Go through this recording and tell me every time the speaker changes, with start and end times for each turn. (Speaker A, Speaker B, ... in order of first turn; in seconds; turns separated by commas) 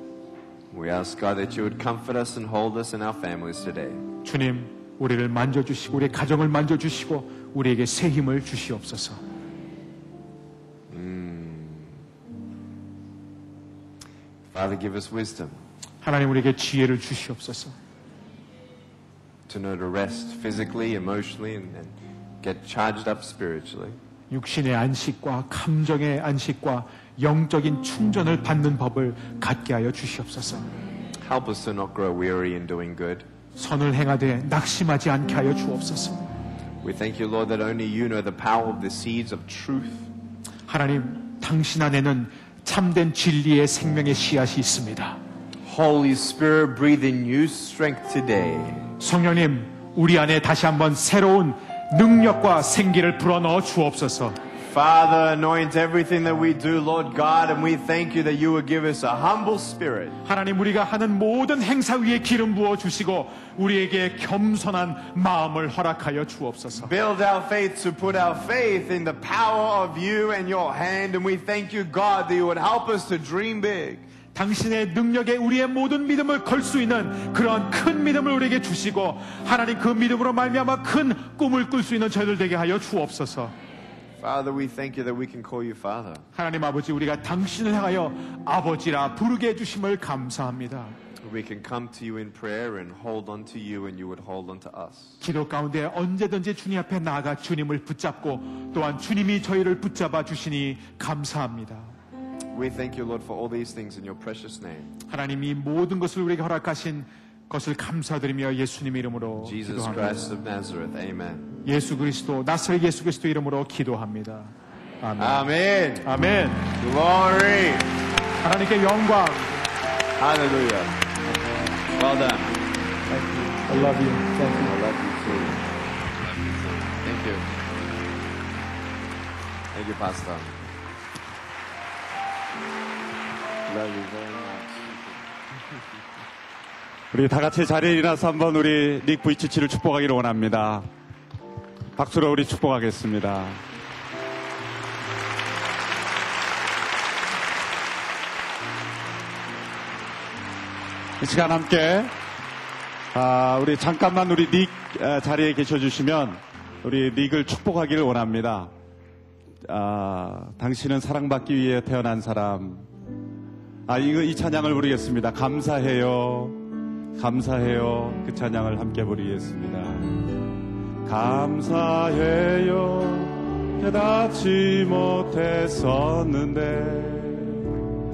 Speaker A: 0.7-4.0, Speaker B: 4.2-9.2, Speaker A: 10.9-12.0, Speaker A: 14.5-15.6, Speaker B: 16.0-17.8, Speaker A: 19.5-24.0, Speaker B: 24.3-30.7, Speaker A: 31.2-33.3, Speaker B: 33.6-36.3, Speaker A: 36.8-40.1, Speaker B: 40.7-45.2, Speaker A: 45.7-48.9, Speaker B: 49.0-54.4, Speaker A: 54.7-60.2, Speaker B: 60.2-66.9, Speaker A: 66.8-74.0, Speaker B: 74.3-83.5, Speaker A: 84.2-86.2, Speaker B: 86.3-91.0, Speaker A: 91.2-95.2, Speaker B: 95.2-101.9, Speaker A: 102.5-104.9, Speaker B: 105.1-110.3, Speaker A: 109.4-111.5, Speaker B: 111.7-115.5, Speaker A: 115.2-116.1, Speaker B: 116.0-116.7, Speaker A: 116.8-117.9, Speaker B: 118.4-119.5, Speaker A: 120.2-121.0, Speaker A: 121.9-122.6, Speaker B: 123.1-124.8, Speaker A: 124.5-125.7, Speaker A: 126.9-127.5, Speaker A: 129.7-130.6, Speaker A: 133.7-134.9, Speaker C: 137.1-140.9, Speaker C: 142.0-143.6, Speaker C: 151.2-152.1, Speaker C: 153.1-158.7, Speaker C: 159.6-162.9, Speaker C: 163.9-166.6, Speaker C: 167.2-170.4, Speaker C: 171.1-177.7